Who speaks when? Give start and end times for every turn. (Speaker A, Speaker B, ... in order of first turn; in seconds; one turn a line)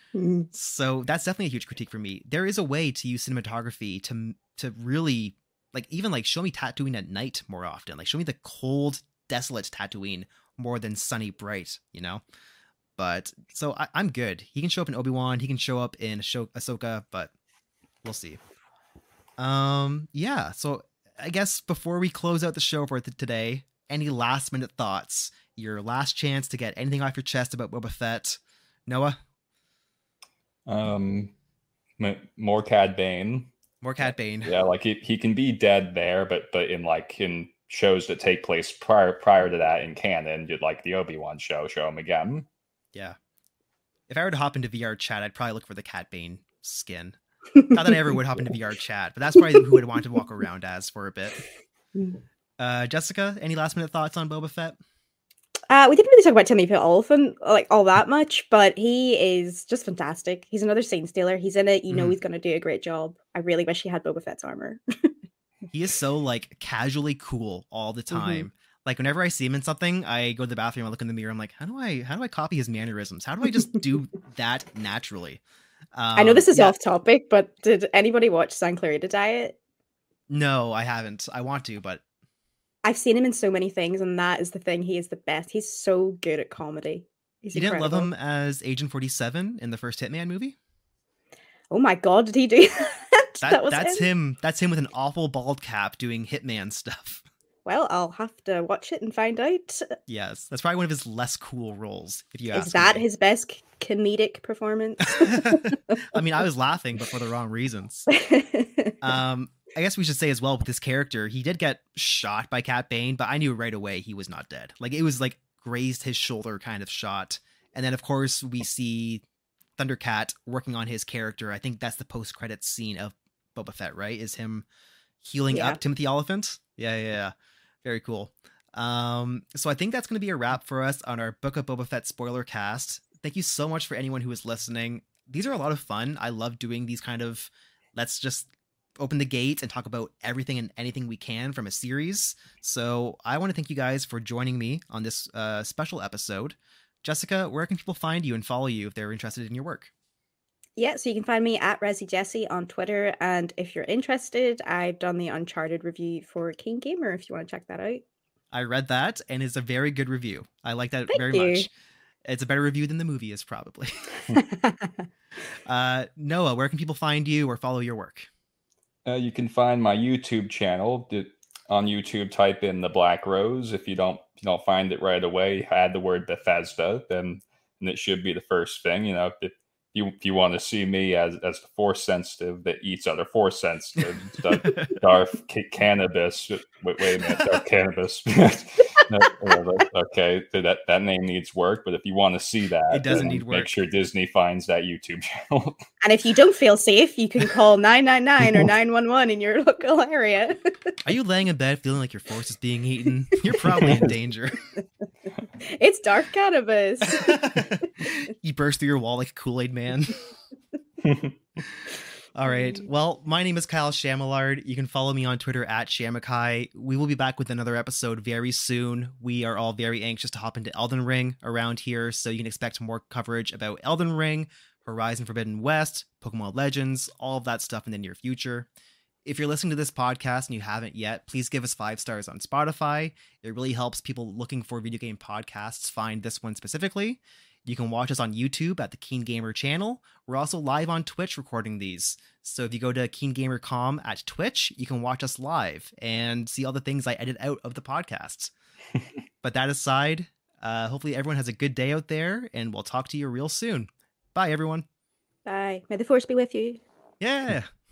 Speaker A: 0.1-0.5
Speaker B: 0.5-12.2
Speaker B: 13.0-17.3
Speaker B: 18.0-18.4
Speaker B: 19.4-29.2
Speaker C: 30.6-31.3
Speaker C: 32.0-33.5
Speaker B: 33.8-34.5
Speaker C: 34.0-42.5
Speaker B: 44.1-47.2
Speaker A: 47.5-48.0
Speaker B: 47.7-51.4
Speaker B: 52.6-54.8
Speaker A: 55.7-65.1
Speaker B: 61.9-62.1
Speaker B: 65.7-75.4
Speaker A: 68.1-68.4
Speaker B: 75.9-76.7
Speaker A: 76.1-79.5
Speaker B: 80.3-82.0
Speaker A: 82.8-88.1
Speaker B: 87.5-90.5
Speaker A: 91.7-94.0
Speaker B: 93.4-97.2
Speaker A: 97.6-99.9
Speaker B: 100.1-103.0
Speaker A: 102.5-106.0
Speaker B: 105.2-108.1
Speaker A: 108.1-109.0
Speaker B: 109.0-119.2
Speaker B: 119.8-124.7
Speaker B: 125.2-127.3
Speaker A: 125.5-125.8
Speaker B: 127.8-149.9
Speaker A: 150.8-158.0
Speaker B: 158.5-161.7
Speaker A: 161.1-161.7
Speaker B: 162.2-164.1
Speaker A: 164.3-165.0
Speaker B: 165.7-168.3
Speaker C: 169.0-195.8
Speaker B: 192.9-193.7
Speaker A: 196.0-200.9
Speaker B: 201.0-204.6
Speaker C: 203.8-204.1
Speaker A: 205.6-208.1
Speaker B: 207.2-210.2
Speaker C: 211.0-211.3
Speaker B: 211.6-228.7
Speaker B: 229.2-248.5
Speaker B: 249.4-254.8
Speaker A: 255.4-256.8
Speaker B: 257.2-257.7